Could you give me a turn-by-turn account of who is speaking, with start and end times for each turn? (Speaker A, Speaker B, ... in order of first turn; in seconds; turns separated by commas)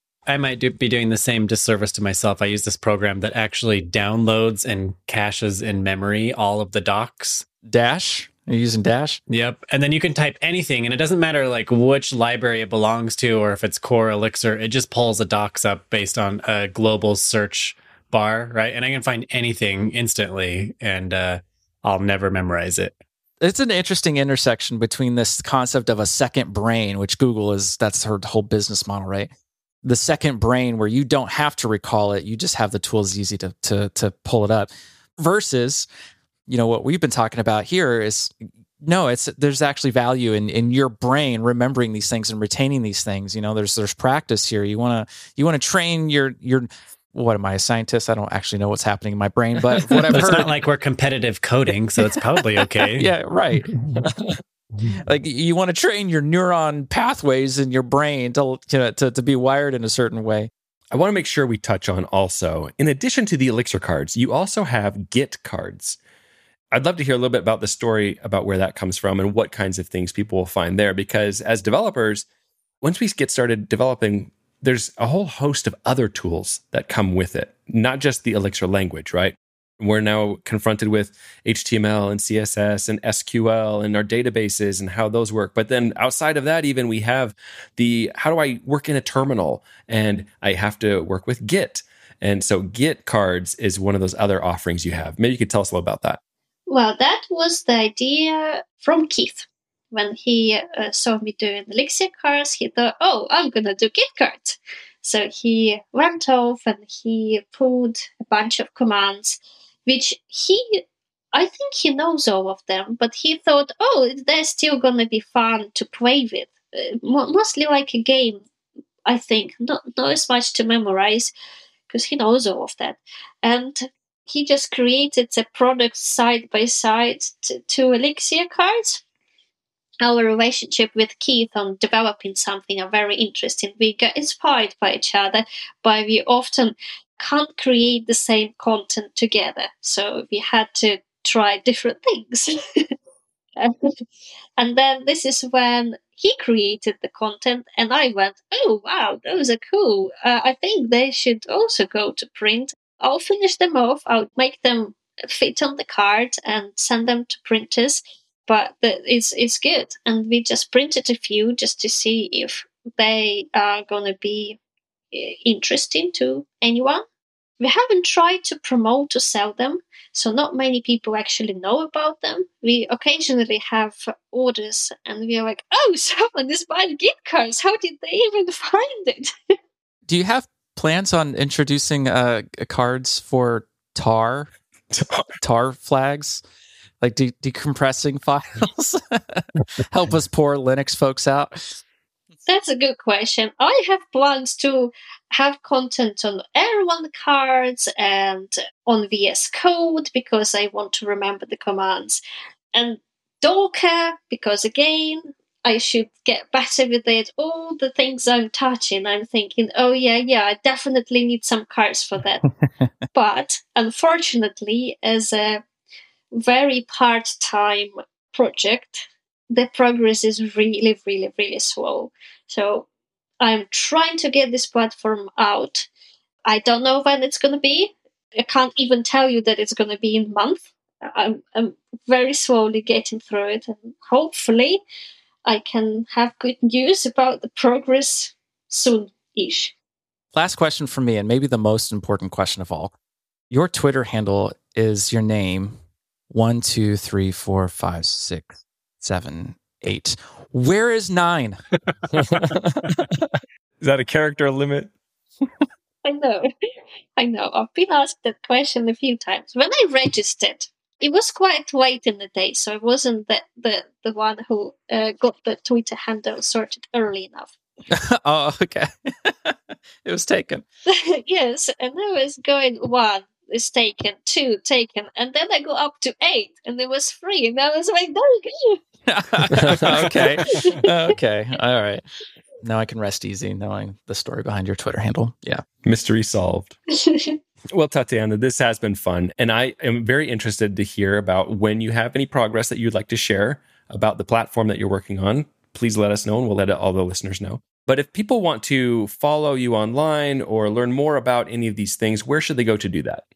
Speaker A: 0.3-7.5, Speaker B: 7.6-9.2, Speaker A: 9.3-23.0, Speaker B: 23.4-29.3, Speaker B: 29.8-35.9, Speaker B: 36.5-50.5, Speaker A: 50.1-53.1, Speaker B: 52.8-53.9, Speaker B: 55.0-60.5, Speaker C: 60.9-66.0, Speaker C: 66.7-72.2, Speaker C: 72.8-96.2, Speaker D: 96.7-110.8, Speaker D: 111.3-118.4, Speaker D: 119.1-121.3, Speaker D: 121.9-129.0, Speaker D: 130.0-142.9, Speaker D: 143.6-144.0, Speaker D: 144.6-164.6, Speaker D: 165.1-167.1, Speaker D: 167.6-179.3, Speaker B: 180.1-184.5, Speaker C: 184.9-185.3, Speaker B: 185.4-186.4, Speaker B: 187.0-191.8, Speaker D: 192.5-202.2, Speaker D: 202.7-212.5, Speaker D: 213.1-215.6, Speaker D: 216.3-222.9, Speaker D: 223.4-225.9, Speaker D: 226.5-234.8, Speaker D: 235.5-239.7, Speaker B: 240.3-242.9, Speaker B: 243.5-245.8, Speaker B: 246.3-251.6, Speaker C: 252.1-254.9, Speaker D: 256.0-256.5, Speaker D: 257.2-267.5, Speaker B: 267.9-270.6, Speaker D: 270.9-278.8, Speaker B: 279.1-282.0, Speaker C: 279.6-280.7, Speaker D: 280.6-280.9, Speaker B: 282.6-285.6, Speaker C: 285.8-286.8, Speaker D: 287.0-287.4, Speaker C: 287.7-303.2